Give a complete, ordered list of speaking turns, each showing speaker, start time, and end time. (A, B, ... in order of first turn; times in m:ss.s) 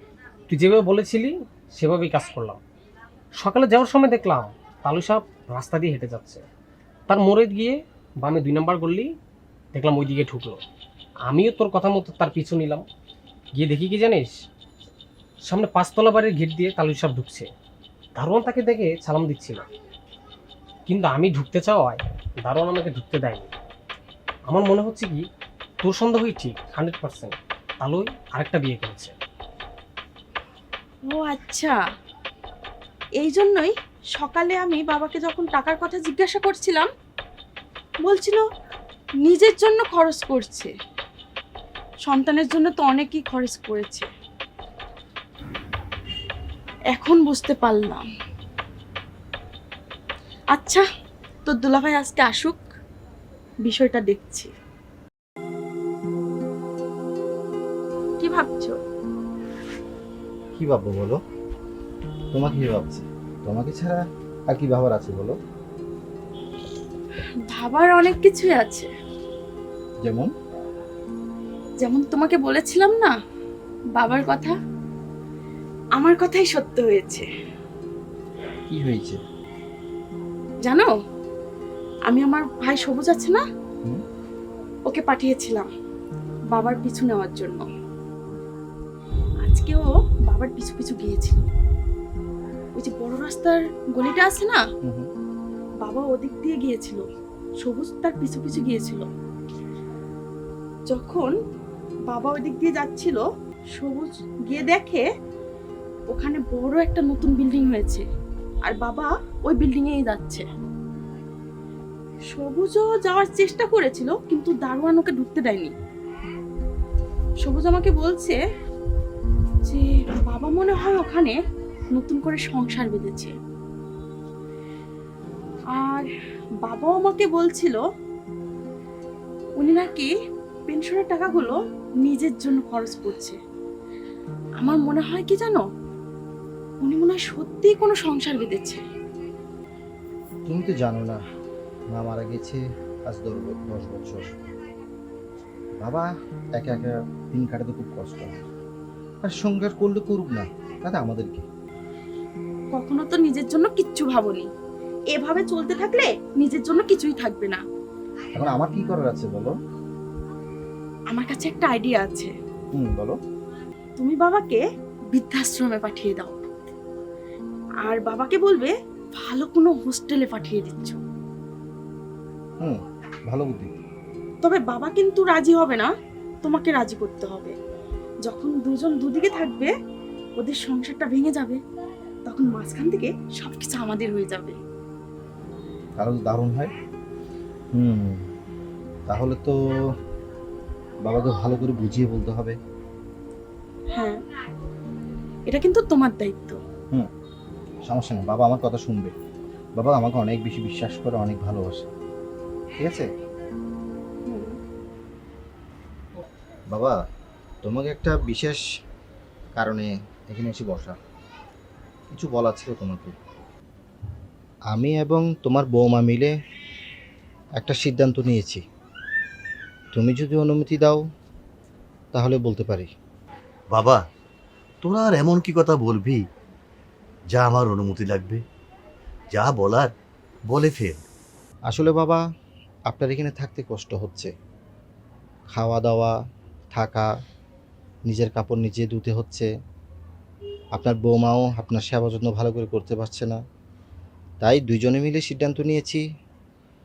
0:00.5-0:02.6 A
0:03.4-0:06.4 A
0:07.1-0:09.1 A
0:09.7-0:10.6 A
0:11.3-0:12.9 A
0:13.5-0:14.4 A
0:15.4-0:17.5 A
0:18.2-0:19.6 A
0:20.9-0:23.5 A
0:24.5-0:25.3 A
0:25.8-0:29.2 A
0:31.1-0:31.8 B
0:33.2-0:36.9 B
0:38.0-0:38.4 B
0:39.2-0:40.7 B
0:42.0-0:44.1 B
0:46.9-0:48.0 B
0:50.5-0:50.8 B
0:51.4-0:52.6 B
0:53.6-0:54.5 B
0:58.2-0:58.8 B
1:00.6-1:01.2 C
1:02.3-1:04.0 C
1:04.5-1:05.4 C
1:07.5-1:08.9 B
1:10.0-1:10.3 C
1:11.8-1:13.1 B
1:14.0-1:14.5 B
1:16.0-1:17.3 B
1:18.7-1:19.2 C
1:20.6-1:20.9 B
1:22.1-1:23.4 B
1:24.9-1:25.7 B
1:26.5-1:27.7 B
1:29.4-1:31.4 B
1:32.8-1:34.6 B
1:34.8-1:35.1 C
1:35.8-1:37.0 B
1:37.6-1:39.1 B
1:40.9-1:41.3 B
1:42.1-1:43.2 B
1:43.8-1:45.1 B
1:46.1-1:48.0 B
1:48.6-1:50.4 B
1:52.3-1:55.7 B
1:57.4-1:58.4 B
1:59.6-2:01.4 B
2:01.9-2:03.3 B
2:05.7-2:06.1 B
2:06.6-2:07.8 B
2:09.6-2:10.1 B
2:10.7-2:13.4 B
2:14.6-2:15.6 B
2:16.8-2:18.8 B
2:20.5-2:21.2 C
2:21.9-2:24.3 C
2:25.8-2:26.1 C
2:26.6-2:28.4 C
2:29.2-2:31.4 C
2:32.8-2:34.5 B
2:35.1-2:37.6 B
2:38.3-2:39.6 C
2:41.1-2:42.3 B
2:42.8-2:43.2 C
2:44.0-2:46.4 B
2:47.8-2:51.0 B
2:53.3-2:53.8 C
2:54.4-2:55.9 B
2:56.4-2:57.6 B
2:58.3-2:59.7 B
3:00.4-3:01.6 B
3:02.3-3:04.6 B
3:06.0-3:06.7 C
3:07.7-3:08.2 C
3:09.1-3:09.8 C
3:11.0-3:12.6 C
3:13.9-3:14.2 B
3:15.5-3:16.6 B
3:17.9-3:19.1 C
3:19.8-3:21.9 C
3:22.8-3:23.1 C
3:24.3-3:24.6 B
3:27.6-3:28.6 C
3:29.6-3:31.0 C
3:32.1-3:33.1 C
3:34.7-3:36.3 C
3:37.6-3:38.6 C
3:40.0-3:41.0 C
3:42.2-3:42.9 C
3:43.7-3:44.0 D
3:44.8-3:46.2 D
3:47.3-3:48.4 D
3:49.3-3:49.9 D
3:50.5-3:51.0 D
3:51.7-3:52.2 C
3:52.9-3:54.3 C
3:55.5-3:56.1 C
3:56.7-3:57.1 C
3:58.1-3:59.5 C
4:00.8-4:03.4 C
4:04.4-4:06.0 C